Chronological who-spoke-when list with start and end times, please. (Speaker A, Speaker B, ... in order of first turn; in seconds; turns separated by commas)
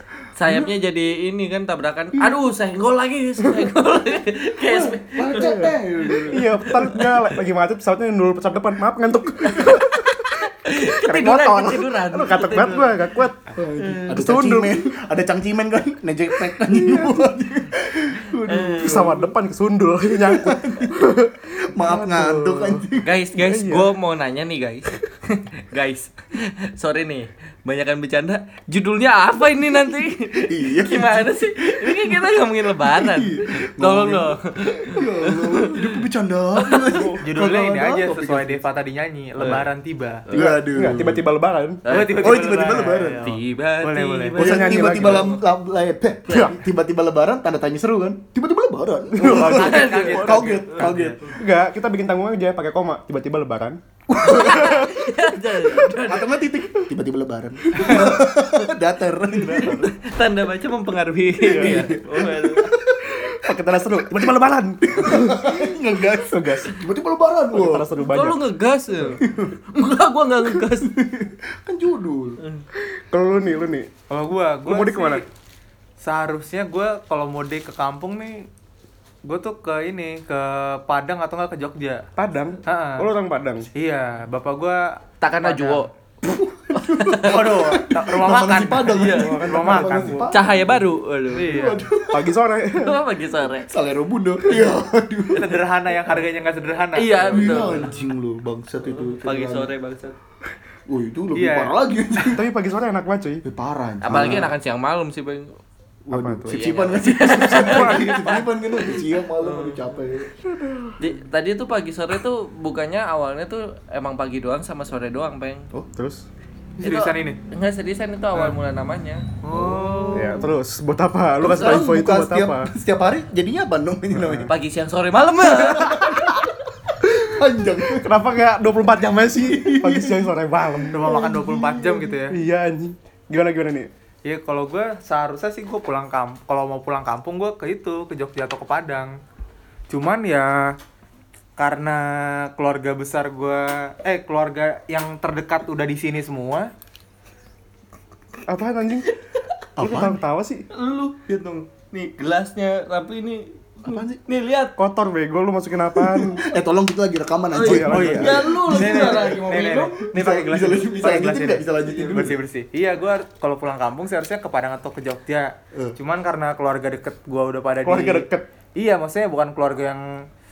Speaker A: 0.3-7.2, Speaker B: 0.4-0.7, Speaker B: 4.7-6.9, Speaker C: 5.3-5.8, Speaker C: 6.3-10.2, Speaker A: 10.3-13.0, Speaker C: 10.8-13.4, Speaker B: 13.5-19.3, Speaker A: 13.8-14.2, Speaker C: 14.1-14.8, Speaker C: 16.6-17.3, Speaker A: 18.4-19.2, Speaker C: 18.8-22.8, Speaker B: 20.2-20.9, Speaker B: 21.6-23.1, Speaker A: 23.0-36.0, Speaker C: 23.4-23.9, Speaker B: 30.5-32.2, Speaker B: 32.8-38.6, Speaker A: 36.6-37.0, Speaker D: 37.2-40.3, Speaker A: 40.3-40.6, Speaker B: 40.3-41.2, Speaker C: 40.7-41.8, Speaker A: 41.9-42.6, Speaker D: 41.9-44.4, Speaker B: 42.1-43.2, Speaker A: 43.2-45.4, Speaker C: 44.4-45.3, Speaker B: 44.4-51.3, Speaker C: 49.2-49.9, Speaker A: 49.2-51.0, Speaker D: 49.2-51.2, Speaker C: 51.3-53.8, Speaker B: 54.1-55.0, Speaker A: 54.2-56.4, Speaker C: 54.4-54.9, Speaker B: 55.6-59.8, Speaker A: 57.7-58.1, Speaker C: 57.8-58.0, Speaker A: 59.4-62.7, Speaker C: 59.5-59.9, Speaker B: 61.4-63.5, Speaker C: 61.5-61.9, Speaker C: 63.3-66.8, Speaker B: 64.9-67.9, Speaker C: 67.5-68.4, Speaker A: 68.1-70.9, Speaker B: 69.1-69.6, Speaker B: 70.4-72.4, Speaker C: 73.1-73.9, Speaker D: 74.1-75.2, Speaker C: 74.6-75.2, Speaker D: 76.0-78.5, Speaker D: 79.2-82.0, Speaker C: 82.2-83.7, Speaker D: 82.7-83.1, Speaker D: 83.7-85.8, Speaker A: 85.2-85.9, Speaker B: 86.2-90.7, Speaker A: 86.8-87.4, Speaker D: 87.2-90.3, Speaker A: 88.9-89.4, Speaker C: 89.1-90.8, Speaker A: 90.3-91.7, Speaker D: 91.3-91.8, Speaker B: 91.4-92.3, Speaker C: 92.1-93.0, Speaker A: 92.7-93.7, Speaker B: 93.6-95.6, Speaker A: 94.5-94.8, Speaker D: 95.3-97.8, Speaker A: 96.9-98.1, Speaker B: 97.2-99.7, Speaker A: 98.8-100.2, Speaker B: 100.9-102.4, Speaker D: 101.3-101.7, Speaker C: 102.3-103.4, Speaker B: 103.4-104.5, Speaker A: 104.0-105.5, Speaker C: 104.1-104.5, Speaker B: 106.1-110.3, Speaker C: 106.1-106.7, Speaker A: 106.5-110.0, Speaker C: 107.2-108.3, Speaker C: 110.4-111.0, Speaker A: 111.0-115.7, Speaker C: 115.9-116.2, Speaker D: 116.8-117.4, Speaker A: 116.8-119.2, Speaker D: 119.4-120.4, Speaker B: 119.5-120.4, Speaker C: 120.1-122.7, Speaker B: 121.4-124.5, Speaker A: 121.4-121.9, Speaker C: 124.1-124.5, Speaker A: 124.5-126.2, Speaker B: 125.5-128.1, Speaker C: 128.0-131.2, Speaker B: 129.4-130.3, Speaker D: 130.8-132.4, Speaker B: 130.9-132.2, Speaker C: 132.3-133.9, Speaker D: 134.2-139.2, Speaker D: 139.9-140.8, Speaker D: 141.6-146.7, Speaker C: 148.5-149.1, Speaker A: 149.1-149.5, Speaker B: 149.8-150.2, Speaker C: 149.8-150.6, Speaker A: 150.7-154.7, Speaker B: 153.8-154.2, Speaker C: 154.8-156.4, Speaker B: 156.0-159.4, Speaker A: 157.5-160.0, Speaker C: 157.6-158.5, Speaker D: 157.9-170.2, Speaker B: 160.1-162.4, Speaker C: 167.8-168.5